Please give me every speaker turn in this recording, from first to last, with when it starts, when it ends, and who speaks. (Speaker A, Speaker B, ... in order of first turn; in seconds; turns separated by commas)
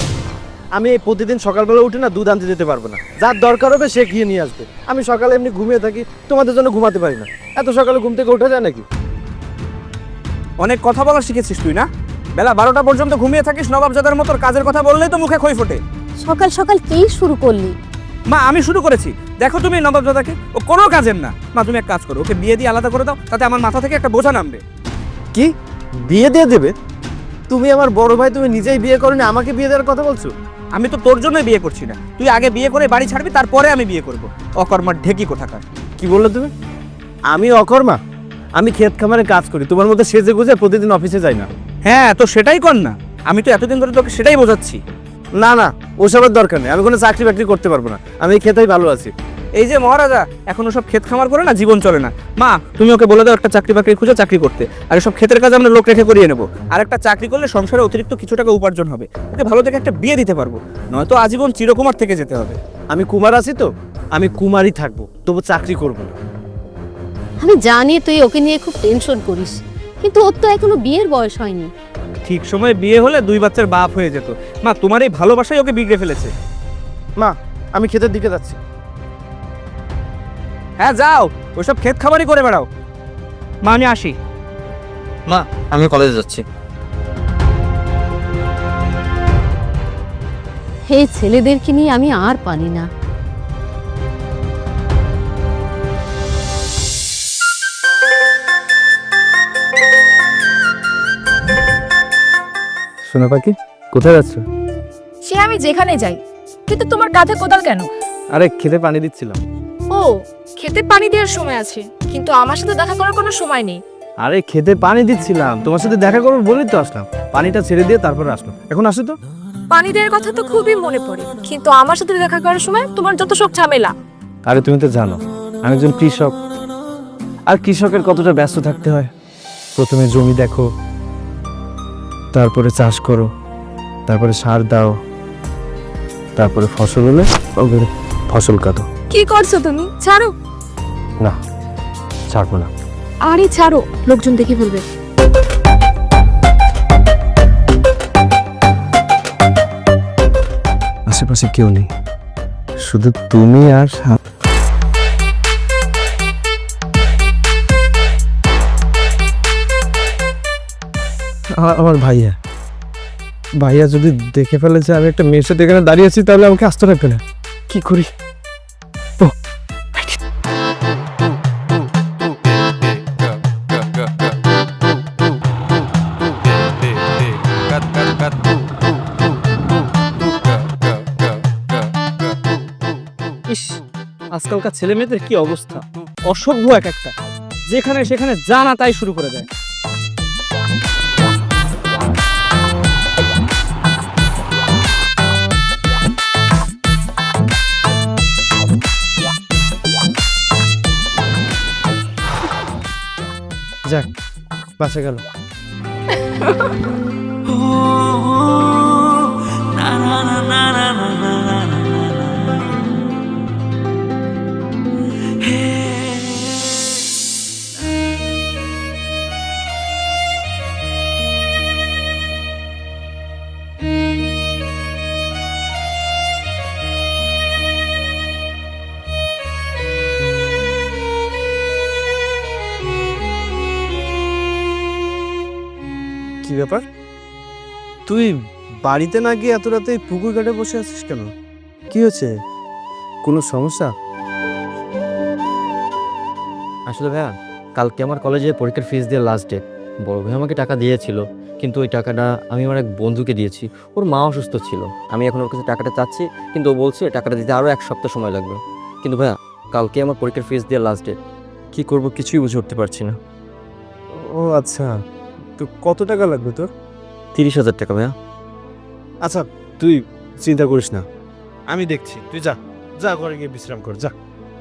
Speaker A: 0.7-8.8, Speaker B: 10.6-15.8, Speaker C: 16.2-17.7, Speaker B: 18.3-24.6, Speaker A: 25.3-26.7, Speaker A: 27.5-30.3, Speaker B: 30.8-35.6, Speaker A: 36.0-36.5, Speaker A: 37.3-38.0, Speaker A: 38.5-41.5, Speaker B: 41.9-44.8, Speaker A: 45.4-49.1, Speaker B: 49.6-62.6, Speaker A: 62.9-66.2, Speaker C: 67.4-71.7, Speaker B: 72.2-76.3, Speaker A: 77.2-78.6, Speaker B: 80.8-82.7, Speaker B: 83.6-84.2, Speaker D: 85.3-86.4, Speaker C: 90.9-92.9, Speaker A: 103.1-104.4, Speaker E: 105.2-107.9, Speaker A: 108.3-109.4, Speaker E: 109.9-113.8, Speaker A: 114.2-119.2, Speaker E: 119.7-123.9, Speaker A: 124.4-126.3, Speaker A: 127.5-129.1, Speaker A: 129.8-130.6, Speaker A: 132.3-133.3, Speaker A: 134.1-134.9, Speaker A: 136.3-138.8, Speaker E: 139.1-140.3, Speaker A: 142.3-142.7, Speaker E: 143.2-144.8, Speaker A: 151.1-151.9, Speaker A: 152.8-154.2, Speaker A: 161.5-162.3, Speaker A: 163.6-168.1, Speaker B: 183.5-183.8, Speaker B: 184.3-187.1, Speaker B: 187.7-189.4, Speaker A: 204.8-205.2, Speaker A: 236.4-236.8, Speaker A: 238.1-238.3, Speaker A: 238.8-241.3, Speaker A: 241.9-242.3, Speaker A: 243.2-243.9, Speaker D: 246.9-261.2, Speaker D: 261.7-263.2, Speaker A: 264.1-264.9, Speaker A: 265.6-266.7, Speaker D: 267.3-268.1, Speaker A: 269.2-271.0, Speaker A: 271.7-274.1